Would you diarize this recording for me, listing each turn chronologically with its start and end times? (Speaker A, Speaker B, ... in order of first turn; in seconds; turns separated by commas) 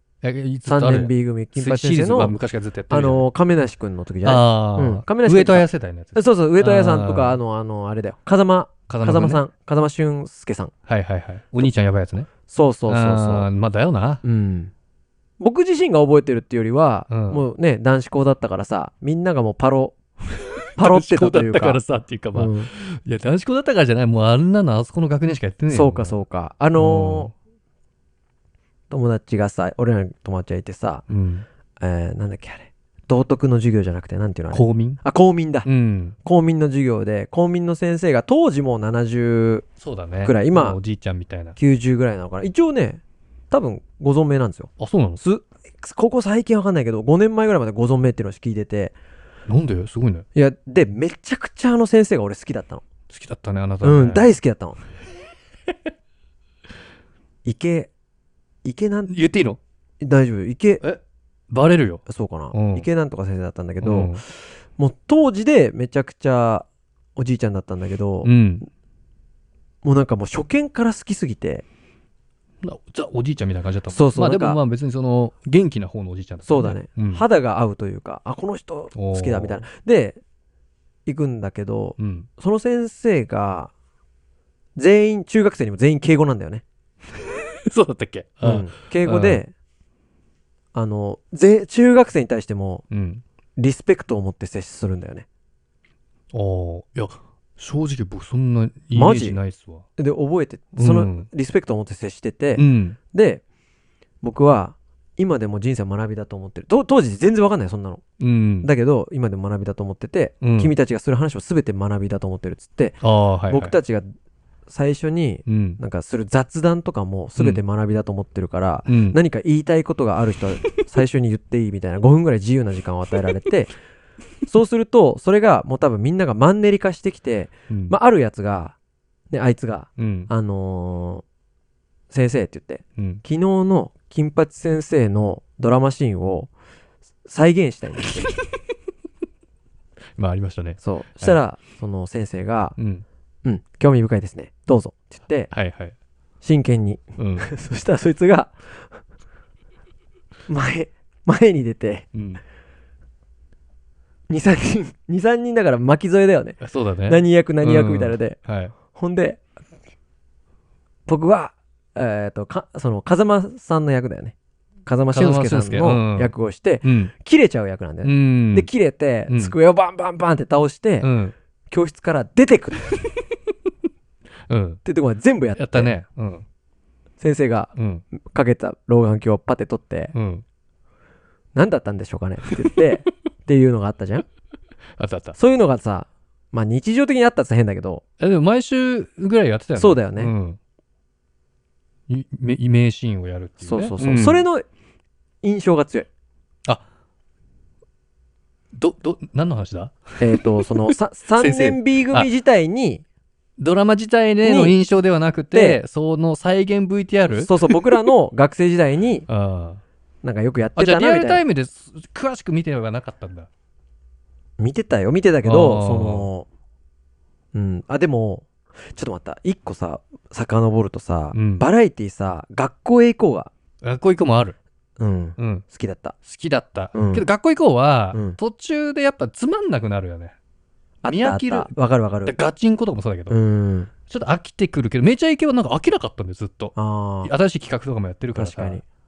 Speaker A: 0.2-3.3, Speaker B: 0.7-2.4, Speaker B: 2.9-10.7, Speaker A: 4.2-7.4, Speaker A: 8.9-9.4, Speaker A: 10.9-12.3, Speaker B: 12.5-13.5, Speaker A: 12.9-14.2, Speaker B: 14.2-14.7, Speaker B: 15.4-20.0, Speaker A: 17.1-17.4, Speaker A: 20.4-26.2, Speaker B: 20.8-21.8, Speaker B: 22.3-22.7, Speaker B: 25.7-27.3, Speaker A: 26.8-27.3, Speaker B: 28.9-31.0, Speaker A: 31.1-31.4, Speaker B: 31.8-35.7, Speaker A: 34.5-35.0, Speaker A: 35.6-36.2, Speaker B: 36.2-39.7, Speaker A: 39.8-41.6, Speaker B: 40.2-40.8, Speaker B: 41.6-49.0, Speaker A: 44.8-45.2, Speaker A: 49.5-50.3, Speaker B: 50.4-52.8, Speaker A: 53.1-54.3, Speaker B: 53.8-54.8, Speaker B: 57.5-57.9, Speaker B: 58.6-59.1, Speaker A: 59.1-59.6, Speaker B: 60.0-60.8, Speaker A: 60.8-62.9, Speaker B: 62.1-66.7, Speaker A: 63.8-64.2, Speaker B: 67.2-68.3, Speaker A: 68.2-68.7, Speaker B: 69.8-71.7, Speaker A: 72.6-77.2, Speaker B: 73.9-74.6, Speaker B: 76.5-80.2, Speaker A: 78.9-79.7, Speaker B: 81.1-83.7, Speaker A: 82.0-82.3, Speaker B: 84.8-86.6, Speaker A: 87.2-89.4, Speaker B: 88.4-89.5, Speaker B: 90.7-92.8, Speaker A: 92.9-93.2, Speaker B: 93.6-95.2, Speaker A: 96.3-99.8, Speaker B: 98.9-99.4, Speaker B: 100.0-103.4, Speaker A: 100.8-101.3, Speaker A: 102.5-103.0, Speaker B: 104.2-108.0, Speaker A: 108.2-108.7, Speaker B: 108.6-114.1, Speaker A: 110.4-110.7, Speaker A: 113.0-113.8, Speaker B: 114.7-123.7, Speaker A: 115.5-115.8, Speaker A: 118.9-119.2, Speaker B: 124.5-128.8, Speaker A: 127.7-127.9, Speaker B: 129.3-131.2, Speaker A: 130.0-130.3, Speaker B: 132.1-136.5, Speaker A: 133.0-133.2, Speaker B: 137.3-138.3, Speaker A: 140.2-141.4, Speaker B: 140.8-142.8, Speaker A: 142.8-143.1, Speaker B: 143.4-145.5, Speaker A: 145.5-145.9, Speaker B: 146.4-148.5, Speaker A: 147.2-147.5, Speaker B: 150.5-152.1, Speaker A: 152.1-152.4, Speaker B: 154.3-158.4, Speaker A: 156.6-158.7, Speaker B: 158.9-159.4, Speaker B: 161.1-164.3, Speaker B: 164.9-171.1, Speaker A: 165.1-166.3, Speaker A: 166.8-167.1, Speaker A: 168.0-168.7, Speaker A: 169.3-169.5, Speaker A: 171.0-171.3, Speaker B: 171.7-172.9, Speaker A: 174.5-174.8, Speaker B: 174.8-175.9, Speaker A: 175.6-176.4, Speaker B: 177.2-180.1, Speaker A: 177.8-178.1, Speaker A: 180.1-180.4, Speaker B: 181.6-184.2, Speaker A: 185.0-185.4, Speaker B: 185.4-188.0, Speaker A: 188.2-190.6, Speaker B: 189.8-190.3, Speaker A: 192.1-194.4, Speaker B: 193.6-194.7, Speaker B: 195.4-196.1, Speaker A: 198.8-202.3, Speaker B: 200.2-203.0, Speaker A: 203.6-207.8, Speaker B: 204.4-204.8, Speaker B: 205.5-205.8, Speaker B: 207.3-209.3, Speaker A: 209.3-209.8, Speaker B: 210.2-211.4, Speaker A: 210.8-213.5, Speaker B: 214.6-216.5, Speaker A: 215.4-216.3, Speaker B: 217.5-223.5, Speaker A: 221.3-221.7, Speaker A: 223.8-224.6, Speaker B: 225.0-226.2, Speaker A: 225.4-225.7, Speaker A: 226.2-230.4, Speaker B: 226.9-227.3, Speaker B: 228.1-228.4, Speaker B: 231.0-232.3, Speaker A: 231.1-231.7, Speaker A: 232.3-233.4, Speaker B: 233.3-233.9, Speaker A: 234.1-238.8, Speaker B: 236.8-237.3, Speaker B: 238.4-238.8